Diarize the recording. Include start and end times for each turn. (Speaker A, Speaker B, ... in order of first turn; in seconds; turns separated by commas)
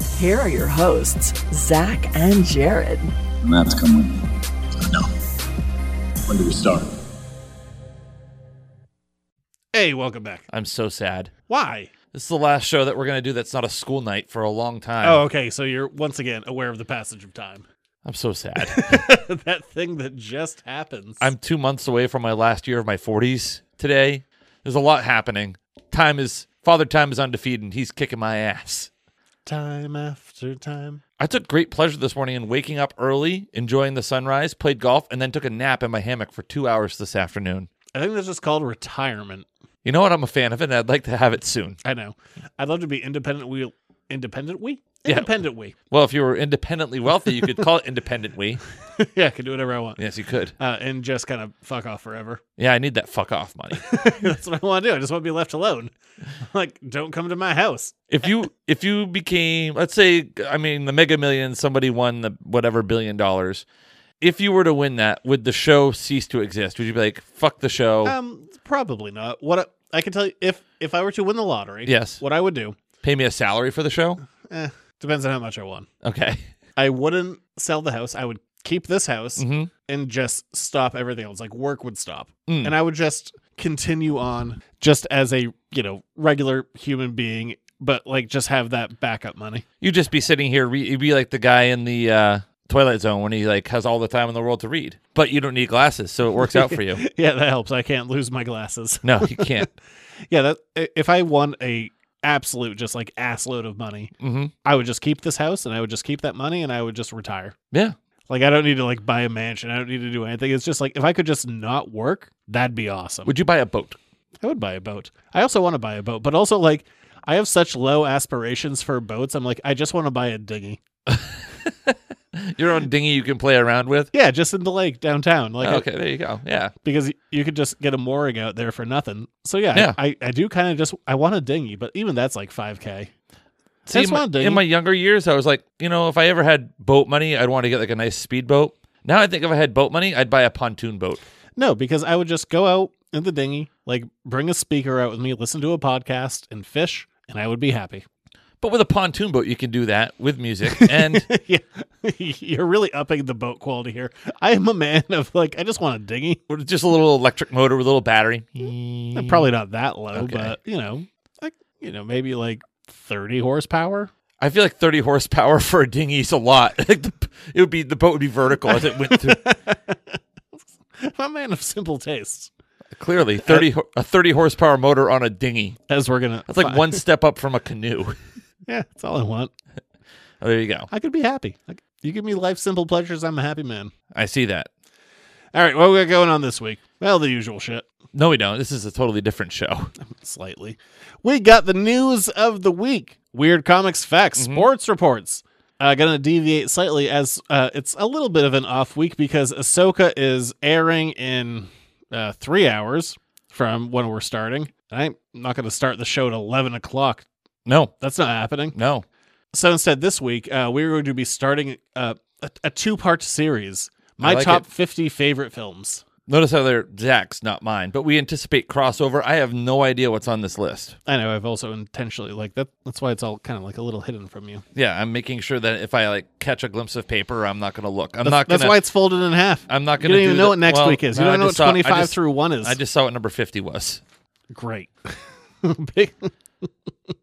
Speaker A: 0.1-3.1, Speaker B: 3.4-5.1, Speaker B: 6.3-6.9, Speaker C: 9.7-10.4, Speaker D: 10.5-11.3, Speaker C: 11.5-11.9, Speaker D: 12.1-15.2, Speaker C: 15.0-17.6, Speaker D: 18.0-19.1, Speaker C: 18.6-21.3, Speaker D: 21.2-28.9, Speaker C: 29.4-31.0, Speaker D: 31.2-37.7, Speaker C: 37.9-39.5, Speaker D: 39.8-41.8, Speaker C: 41.8-45.7, Speaker D: 45.0-45.3, Speaker D: 45.9-48.6, Speaker C: 47.3-47.6, Speaker C: 49.0-50.0, Speaker D: 50.0-50.5, Speaker C: 50.6-52.4, Speaker D: 52.6-54.3, Speaker C: 53.9-55.9, Speaker C: 56.4-58.0, Speaker D: 58.1-63.6, Speaker D: 64.2-68.2, Speaker C: 68.0-72.8, Speaker D: 71.8-72.2, Speaker D: 73.0-74.2, Speaker C: 74.5-75.9, Speaker D: 76.0-76.5, Speaker C: 76.8-89.6, Speaker D: 79.3-79.7, Speaker D: 82.5-82.7, Speaker D: 89.8-97.0, Speaker C: 96.4-99.7, Speaker D: 99.0-99.7, Speaker C: 100.3-104.1, Speaker D: 104.2-104.5, Speaker C: 104.6-107.5, Speaker C: 108.3-113.3, Speaker D: 113.2-114.0, Speaker C: 114.4-120.8, Speaker D: 121.1-124.1, Speaker C: 124.1-125.8, Speaker D: 125.6-126.7, Speaker C: 126.8-133.1, Speaker D: 133.9-141.2, Speaker C: 133.9-134.6, Speaker C: 141.6-148.0, Speaker D: 148.6-151.3, Speaker C: 150.7-156.4, Speaker D: 156.5-159.5, Speaker C: 159.1-164.1, Speaker D: 160.1-160.5, Speaker D: 164.4-169.4, Speaker C: 168.7-170.2, Speaker C: 171.0-172.5, Speaker D: 172.9-175.8, Speaker C: 175.9-177.0, Speaker D: 176.4-178.2, Speaker C: 178.7-179.5, Speaker D: 180.4-180.9, Speaker C: 180.9-183.9, Speaker D: 184.1-184.7, Speaker C: 185.5-187.8, Speaker D: 188.1-189.9, Speaker C: 190.0-207.2, Speaker D: 194.3-194.7, Speaker D: 207.7-207.9, Speaker C: 208.0-208.8, Speaker D: 208.7-209.1, Speaker C: 209.5-216.0, Speaker D: 214.2-214.6, Speaker D: 216.3-221.0, Speaker C: 221.1-224.6, Speaker D: 224.7-228.8, Speaker C: 228.2-232.8, Speaker D: 229.7-234.0, Speaker C: 234.5-236.7